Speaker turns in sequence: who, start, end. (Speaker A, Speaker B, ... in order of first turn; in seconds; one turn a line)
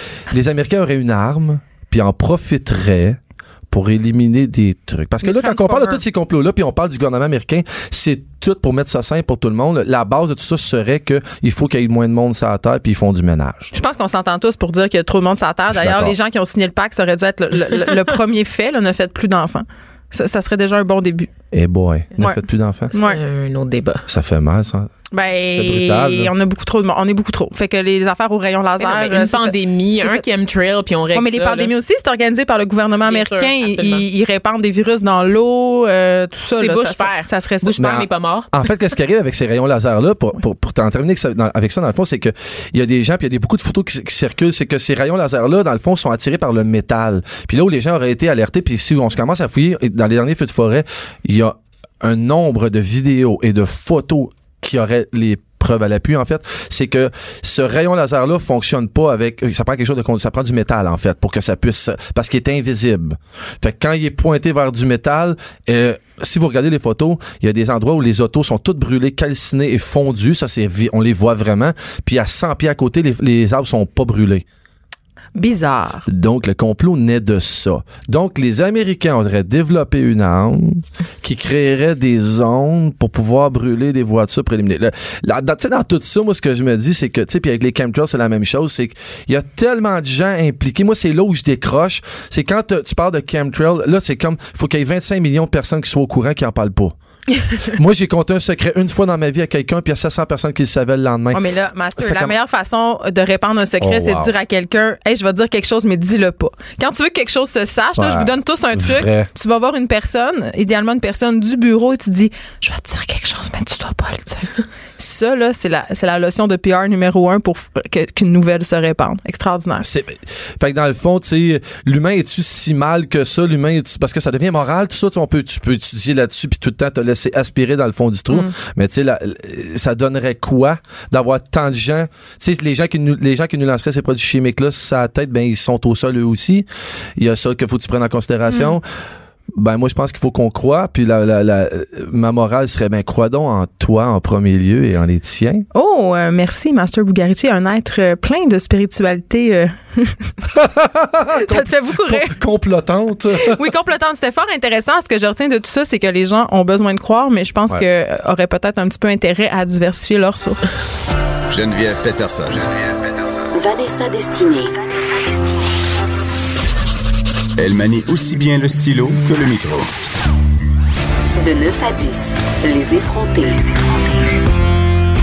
Speaker A: 0.3-13.7
Speaker B: 5.2-6.0
Speaker B: 13.7-21.3
Speaker A: 15.7-16.1
Speaker A: 21.5-22.9
Speaker B: 22.9-23.2
Speaker C: 22.9-24.1
Speaker A: 24.1-24.9
Speaker B: 25.1-30.2
Speaker A: 25.5-26.3
Speaker C: 28.8-31.7
Speaker B: 31.1-37.9
Speaker C: 33.1-34.0
Speaker C: 36.6-38.5
Speaker A: 37.8-74.5
Speaker B: 75.4-76.1
Speaker A: 76.1-97.0
Speaker A: 97.6-101.4
Speaker B: 101.3-119.9
Speaker A: 102.0-102.3
Speaker A: 103.8-104.3
Speaker A: 108.0-109.3
Speaker A: 119.8-138.8
Speaker A: 139.5-145.7
Speaker B: 145.7-150.3
Speaker A: 150.5-153.6
Speaker B: 151.3-152.4
Speaker B: 153.4-160.7
Speaker D: 161.5-163.2
Speaker E: 163.5-165.7
Speaker D: 167.6-169.9
Speaker E: 171.4-173.8